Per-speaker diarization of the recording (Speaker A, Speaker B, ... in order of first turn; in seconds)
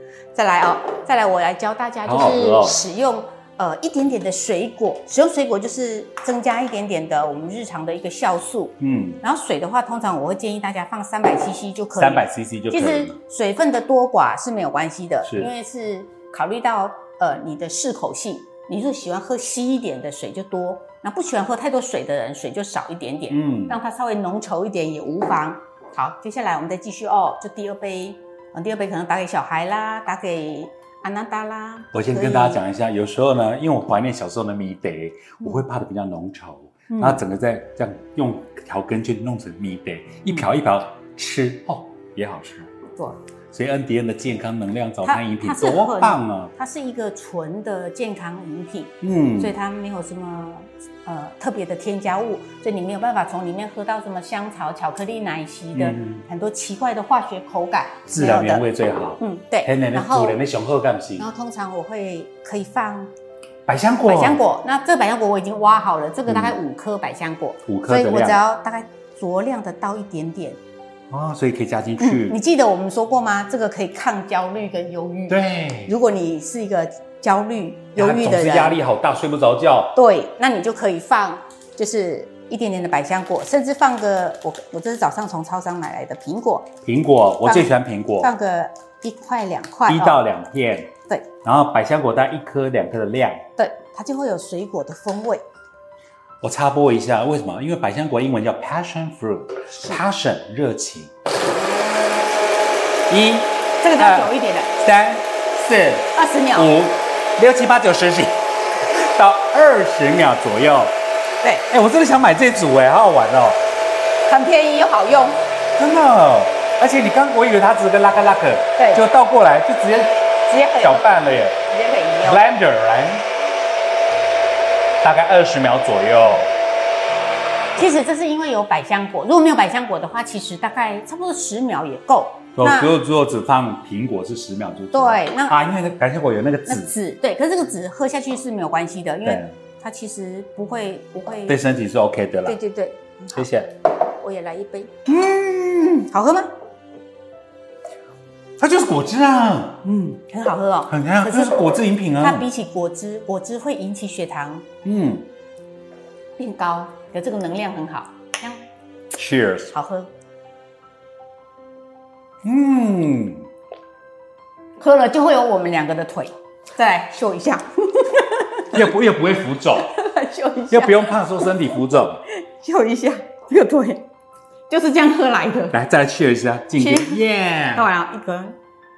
Speaker A: 0.3-32.6, 36.9-37.2, 45.0-58.6, 59.2-60.4, 61.2-63.1, 64.0-70.6, 72.0-78.8, 79.9-86.7, 87.4-90.2, 93.6-95.4, 103.8-104.7, 106.1-106.7, 114.2-115.4, 118.8-119.0, 120.5-121.1, 121.6-122.4, 127.8-132.9, 134.9-135.6, 136.7-141.6, 142.4-143.5, 144.1-144.9, 146.1-146.5, 150.3-154.7, 156.4-158.6, 159.7-160.1, 164.8-168.8, 169.7-171.8, 172.3-174.1, 174.7-175.8, 176.8-178.6
Speaker B: 2.0-2.8, 8.8-9.2, 12.0-13.2, 15.2-15.5, 23.3-23.8, 31.9-42.7, 43.5-46.5, 49.0-49.5, 55.7-56.2, 58.1-61.2, 63.6-64.4, 66.3-66.5, 67.7-68.4, 71.1-72.4, 75.3-75.9, 78.0-79.9, 86.8-88.3, 89.9-90.9, 91.4-93.4, 96.4-101.1, 103.1-111.0, 111.7-113.6, 115.8-121.6, 122.2-123.2, 125.0-126.5, 132.6-136.9, 139.2-139.5, 141.5-142.6, 143.3-143.7, 145.1-146.1, 148.6-150.2, 150.9-152.5, 154.8-155.3, 159.1-159.7, 162.4-163.5, 168.7-170.0, 170.7-172.2, 175.7-177.8